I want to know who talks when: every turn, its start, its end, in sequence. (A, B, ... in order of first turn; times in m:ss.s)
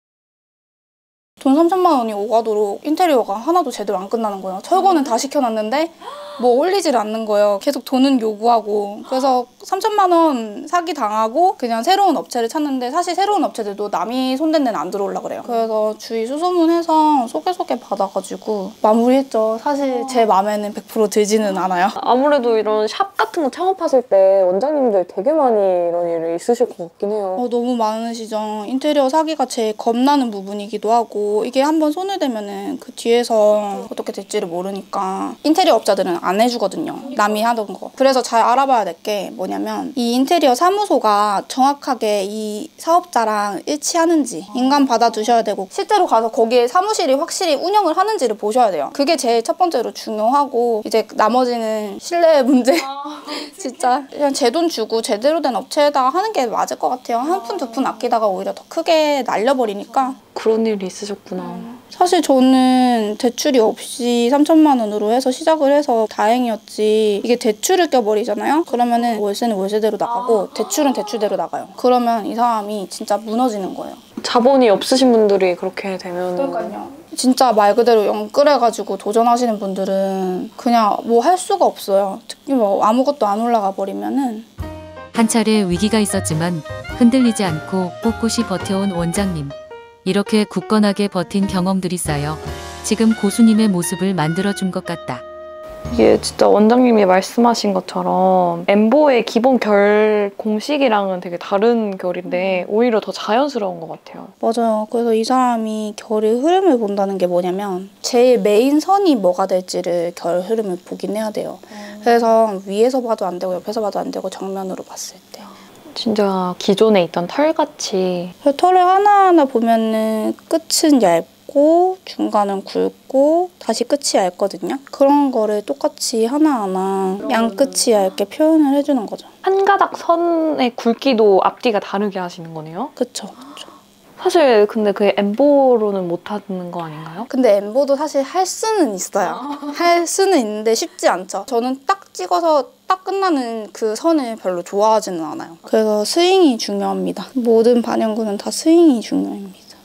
0:01.4-0:21.9 A
0:22.0-0:27.4 B
0:27.4-1:00.2 A
1:00.3-1:01.7 B
1:01.4-1:14.0 A
1:14.2-1:16.8 B
1:16.4-1:24.5 A
1:25.1-1:35.2 C
1:35.9-1:44.3 B
1:44.4-1:55.5 A
1:55.9-1:58.3 B
1:58.4-2:09.3 A
2:09.4-2:12.9 B
2:13.0-2:13.6 A
2:14.2-2:17.3 B
2:17.3-2:29.7 A